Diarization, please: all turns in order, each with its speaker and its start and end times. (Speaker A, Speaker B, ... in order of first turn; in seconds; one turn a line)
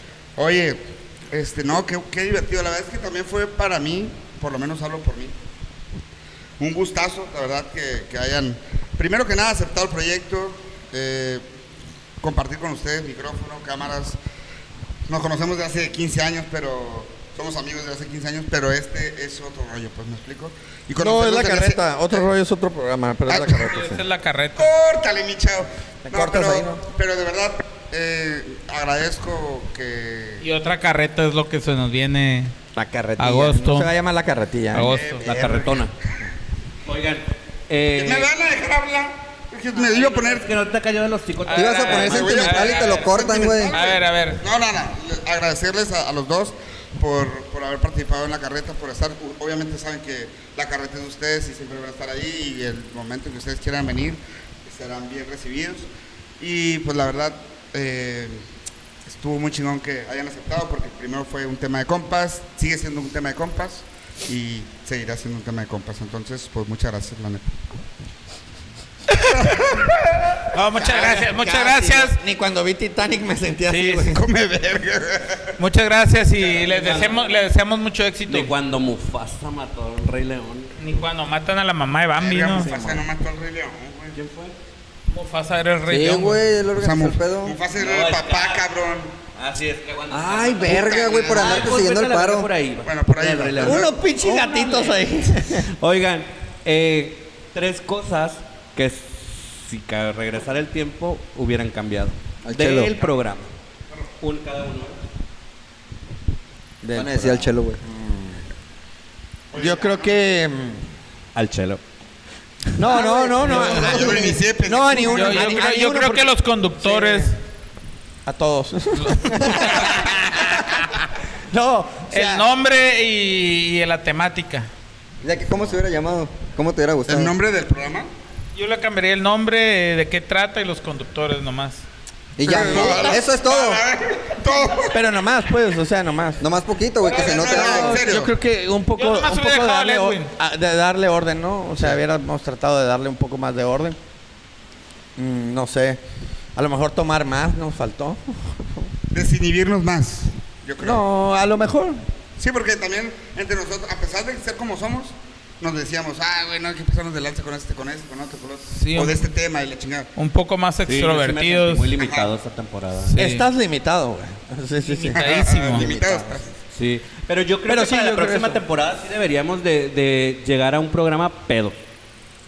Speaker A: 0.4-0.8
Speaker A: 1.3-5.3
Speaker A: 6.6-11.4
Speaker A: 12.2-14.2
Speaker A: 15.1-22.3
Speaker B: 21.0-24.0
Speaker A: 23.3-23.7
Speaker C: 23.6-24.7
Speaker A: 24.6-30.4
Speaker B: 26.1-26.8
Speaker C: 30.4-32.5
Speaker B: 32.8-34.9
Speaker C: 33.2-33.9
Speaker C: 34.7-35.2
Speaker A: 34.8-35.9
Speaker D: 35.2-35.9
Speaker D: 36.9-38.3
Speaker A: 37.9-40.5
Speaker D: 39.8-42.5
Speaker C: 41.5-42.2
Speaker E: 41.5-43.9
Speaker B: 41.9-42.9
Speaker A: 42.0-55.9
Speaker C: 43.7-44.4
Speaker A: 56.4-58.4
Speaker A: 59.1-67.5
Speaker A: 69.2-70.4
Speaker C: 70.5-72.2
Speaker B: 70.8-74.2
Speaker A: 74.0-75.5
Speaker C: 75.6-78.5
Speaker D: 76.4-77.4
Speaker D: 78.3-80.7
Speaker C: 80.8-82.7
Speaker A: 82.2-84.2
Speaker B: 82.5-83.0
Speaker D: 84.1-84.5
Speaker C: 85.1-86.4
Speaker E: 85.9-87.6
Speaker A: 86.8-89.1
Speaker D: 87.7-88.7
Speaker D: 89.3-103.5
Speaker E: 90.1-92.5
Speaker A: 90.6-91.7
Speaker A: 92.8-93.9
Speaker B: 93.6-95.7
Speaker E: 102.4-103.0
Speaker D: 104.2-105.0
Speaker B: 106.8-108.4
Speaker E: 106.9-107.8
Speaker A: 109.5-110.1
Speaker B: 109.5-110.8
Speaker D: 111.3-111.8
Speaker B: 112.8-117.3
Speaker E: 113.0-114.3
Speaker A: 113.4-115.7
Speaker C: 115.1-117.3
Speaker B: 118.3-122.5
Speaker C: 119.0-119.9
Speaker C: 122.1-124.7
Speaker E: 125.2-127.4
Speaker A: 127.1-128.1
Speaker C: 128.6-131.8
Speaker E: 132.4-133.8
Speaker A: 132.4-135.0
Speaker C: 132.5-133.2
Speaker B: 134.9-136.4
Speaker E: 136.4-138.1
Speaker C: 137.0-137.9
Speaker A: 137.1-138.3
Speaker B: 137.5-144.0
Speaker C: 139.0-140.3
Speaker B: 145.2-146.0
Speaker B: 146.6-148.9
Speaker A: 149.1-151.0
Speaker B: 150.8-152.0
Speaker A: 152.4-160.1
Speaker C: 158.7-159.2
Speaker C: 160.2-161.9
Speaker D: 160.9-163.1
Speaker A: 162.0-162.3
Speaker C: 163.1-163.5
Speaker B: 163.2-166.4
Speaker C: 164.8-165.9
Speaker A: 165.2-166.5
Speaker D: 166.7-171.8
Speaker B: 167.7-168.6